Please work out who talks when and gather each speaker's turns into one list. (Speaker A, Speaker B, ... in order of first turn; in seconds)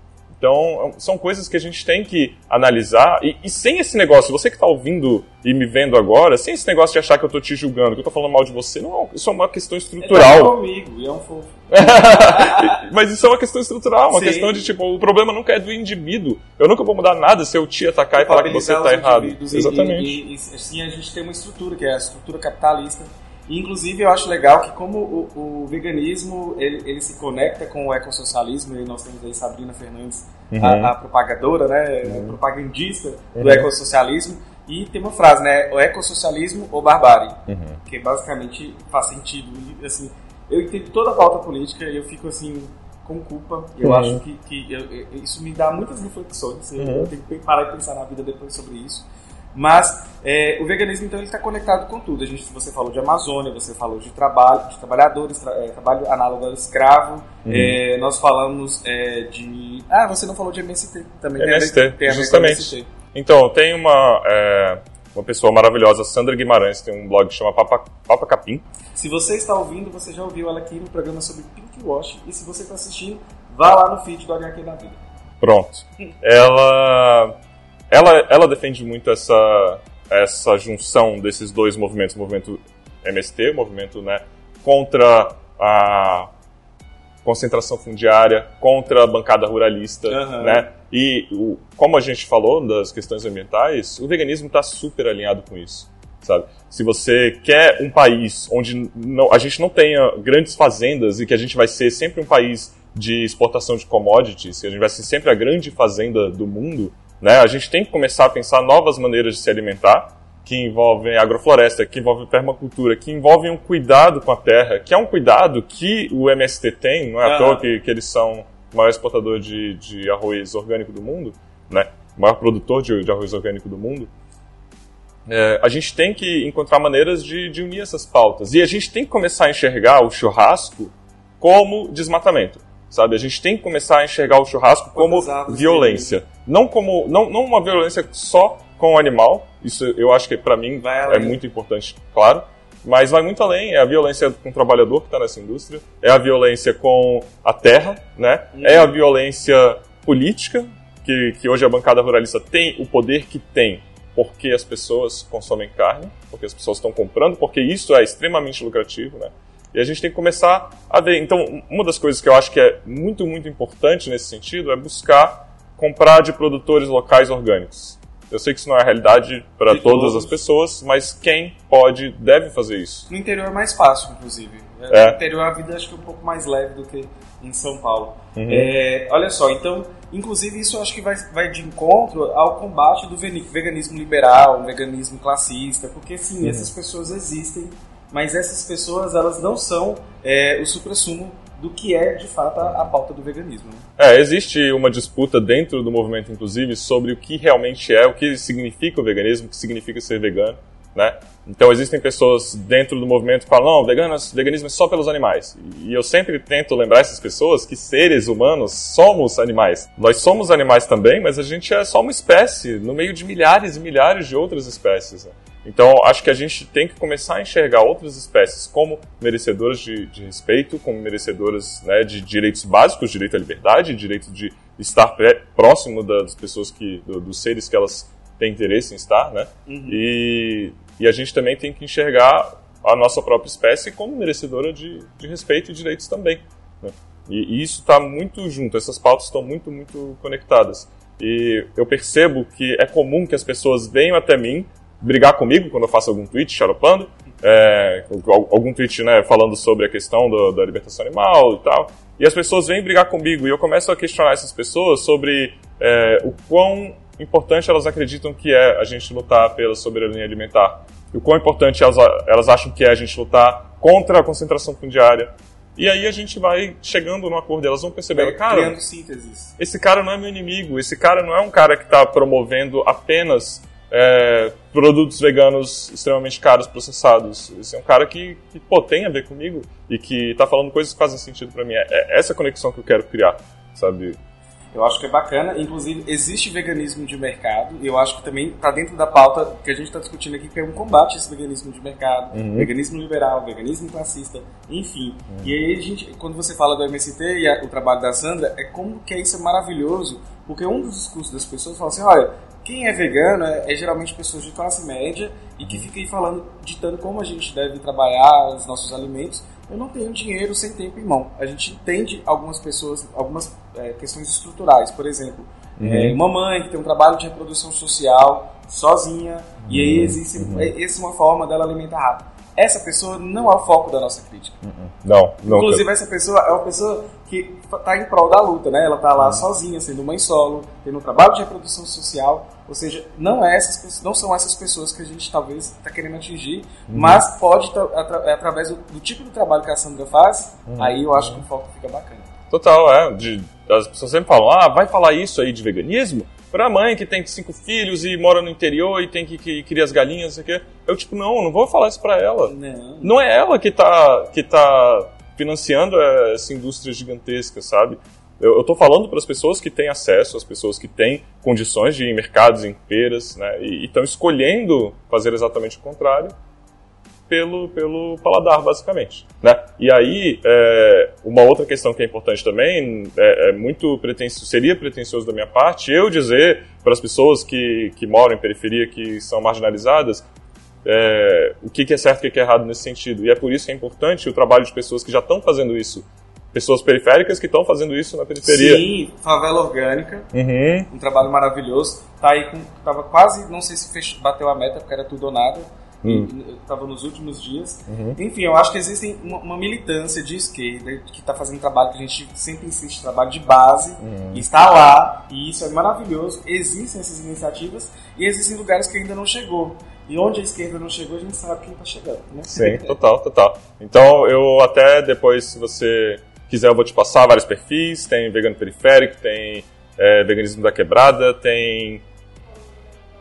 Speaker A: 0.4-10.5, 11.7-20.1, 30.5-30.9, 32.0-32.4, 33.4-33.7, 37.5-37.8, 43.8-44.2, 46.8-47.1, 57.5-57.8, 61.4-68.6, 75.4-77.3, 77.9-86.3, 87.2-124.1, 125.3-173.1, 174.9-175.2, 178.3-178.7, 186.4-186.7, 192.6-192.9, 194.0-268.8, 269.6-284.2, 292.3-292.7, 315.8-316.2, 319.6-320.7, 324.6-325.8, 329.2-329.4, 336.9-337.2, 340.7-341.4, 342.5-366.3, 367.3-380.2, 380.8-388.8, 390.3-390.9, 396.0-396.3, 397.9-398.2, 404.0-404.4, 412.5-422.0
Speaker B: 10.0-12.7, 14.1-14.7, 18.1-62.9, 68.9-75.0, 90.0-90.7, 117.2-117.7, 134.9-136.2, 140.8-141.4, 148.5-148.9, 169.7-170.4, 173.1-193.8, 229.7-230.0, 268.1-269.5, 284.7-324.6, 325.4-342.3, 352.4-353.1, 388.4-390.3, 390.9-412.9